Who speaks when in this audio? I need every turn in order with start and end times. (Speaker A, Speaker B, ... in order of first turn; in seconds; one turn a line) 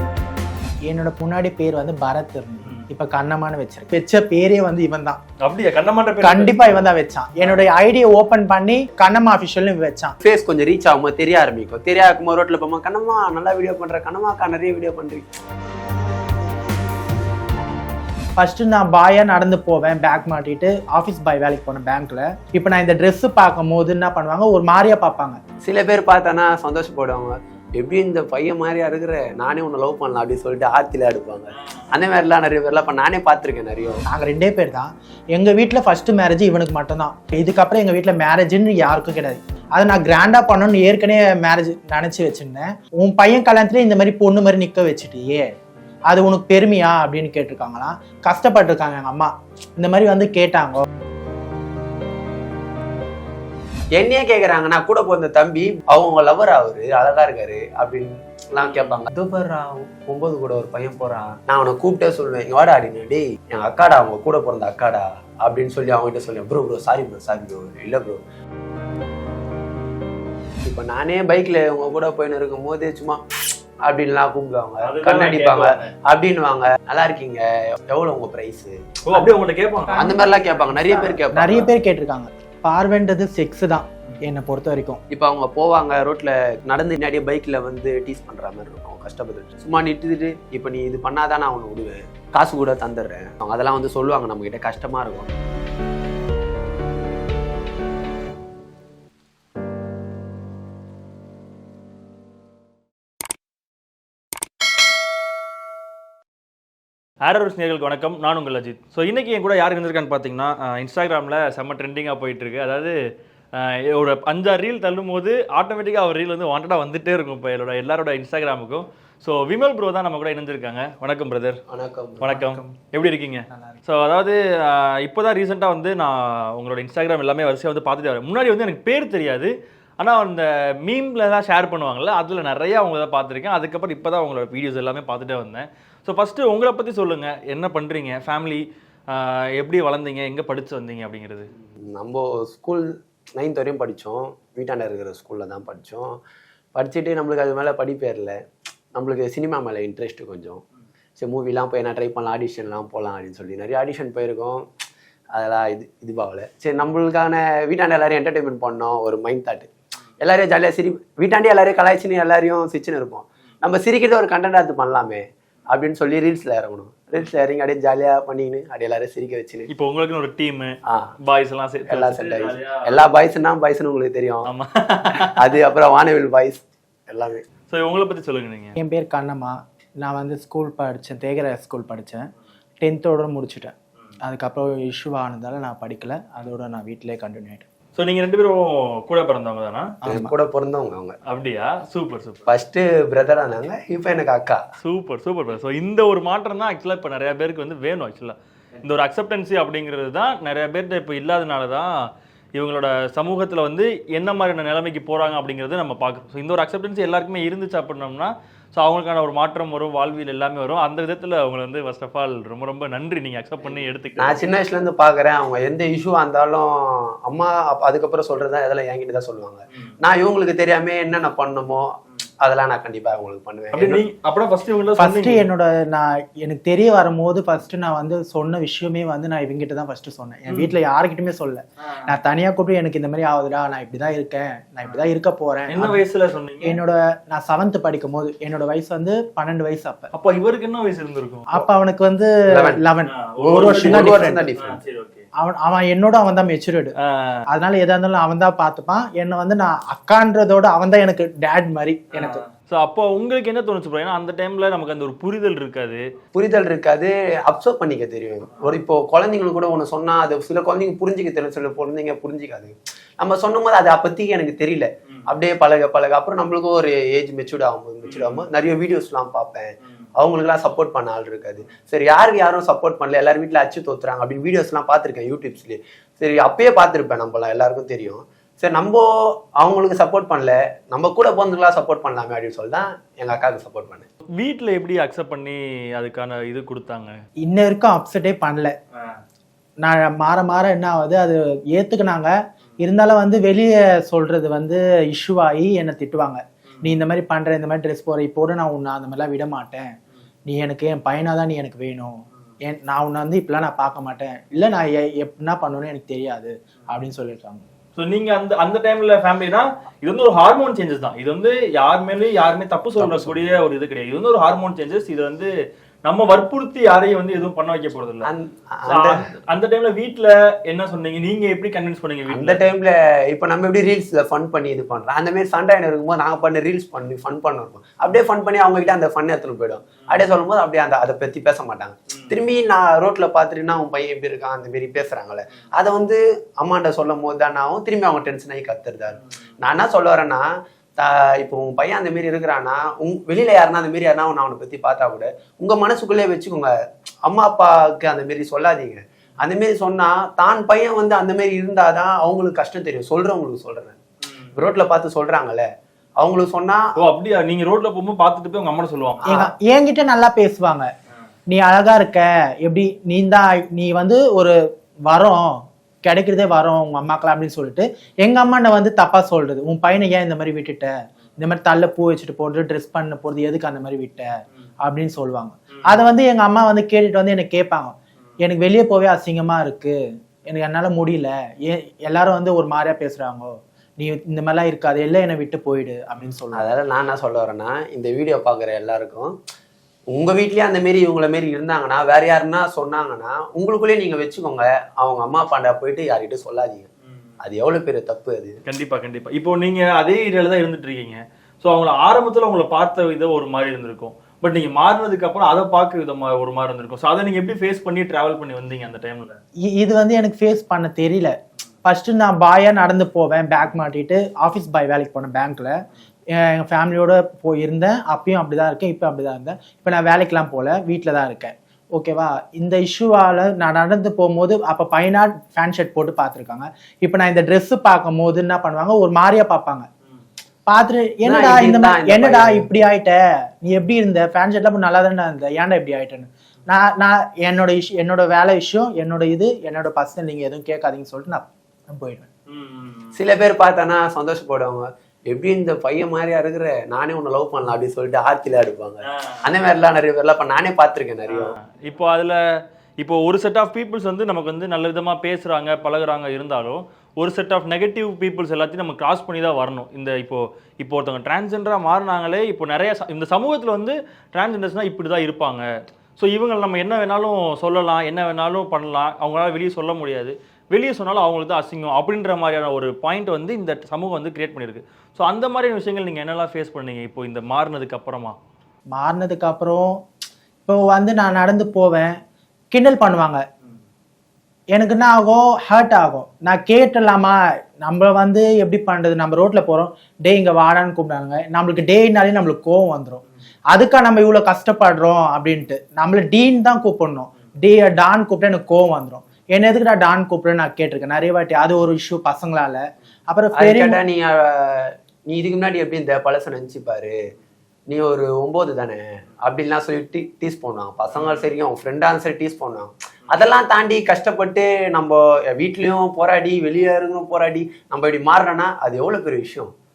Speaker A: 0.9-5.2
Speaker B: 5.4-7.6
Speaker A: 6.2-10.2
Speaker C: 10.2-15.3
Speaker A: 18.4-25.4
Speaker C: 25.6-34.0
Speaker B: 31.6-31.9
Speaker A: 34.1-45.5
Speaker A: 46.1-50.8
Speaker C: 53.9-68.2
Speaker B: 58.6-59.0
Speaker C: 70.6-73.2
Speaker C: 73.8-78.8
Speaker B: 74.8-75.9
Speaker B: 79.1-80.2
Speaker A: 79.9-85.0
Speaker C: 79.9-81.7
Speaker C: 85.1-95.3
Speaker B: 107.2-113.0
Speaker B: 113.5-121.6
Speaker C: 121.7-122.4
Speaker B: 122.2-141.5
Speaker A: 122.3-122.7
Speaker A: 123.5-123.8
Speaker C: 141.7-146.2
Speaker C: 146.8-148.4
Speaker C: 148.9-150.6
Speaker C: 151.2-154.7
Speaker C: 155.3-169.7
Speaker B: 169.7-173.0
Speaker C: 170.9-171.1
Speaker C: 171.9-174.5
Speaker B: 174.5-175.5
Speaker C: 175.2-177.5
Speaker B: 177.7-178.7
Speaker A: 178.8-182.3
Speaker A: 182.8-187.7
Speaker B: 188.0-189.9
Speaker A: 190.0-190.3
Speaker C: 190.1-191.2
Speaker B: 191.3-192.5
Speaker C: 192.5-194.6
Speaker B: 194.8-201.9
Speaker B: 202.6-214.5
Speaker C: 213.6-224.0
Speaker B: 223.7-225.4
Speaker A: 225.0-236.0
Speaker B: 231.8-232.1
Speaker B: 235.7-236.8
Speaker A: 236.6-240.1
Speaker B: 240.1-241.7
Speaker A: 241.5-244.4
Speaker C: 242.5-242.8
Speaker B: 243.1-245.2
Speaker C: 243.4-244.8
Speaker A: 245.4-246.9
Speaker B: 247.0-247.4
Speaker A: 247.5-252.4
Speaker B: 252.1-256.0
Speaker C: 256.3-284.1
Speaker B: 268.1-268.4
Speaker B: 284.4-287.2
Speaker A: 287.4-288.8
Speaker A: 289.8-299.9
Speaker B: 296.7-297.0
Speaker A: 300.5-307.6
Speaker B: 307.9-315.5
Speaker C: 313.0-313.6
Speaker B: 316.1-318.3
Speaker C: 318.2-319.4
Speaker B: 318.9-322.6
Speaker C: 322.3-346.7
Speaker B: 332.1-332.4
Speaker C: 347.2-354.0
Speaker C: 354.6-356.9
Speaker B: 357.0-359.4
Speaker A: 359.3-360.9
Speaker A: 361.5-364.6
Speaker A: 365.1-374.3
Speaker A: 374.8-379.9
Speaker B: 375.7-376.0
Speaker A: 380.5-386.7
Speaker C: 386.6-389.4
Speaker C: 390.1-396.9
Speaker C: 397.4-398.6
Speaker B: 398.7-409.4
Speaker A: 409.7-415.8
Speaker A: 416.3-429.9
Speaker A: 430.7-442.3
Speaker C: 431.2-432.7
Speaker B: 442.5-443.2
Speaker C: 443.1-451.6
Speaker B: 449.1-449.4
Speaker B: 451.3-452.4
Speaker B: 453.0-465.7
Speaker B: 466.2-478.4
Speaker A: 478.9-480.0
Speaker A: 480.7-482.1
Speaker A: 482.7-483.4
Speaker A: 484.7-504.0
Speaker C: 503.6-507.1
Speaker C: 507.9-519.7
Speaker B: 511.1-511.4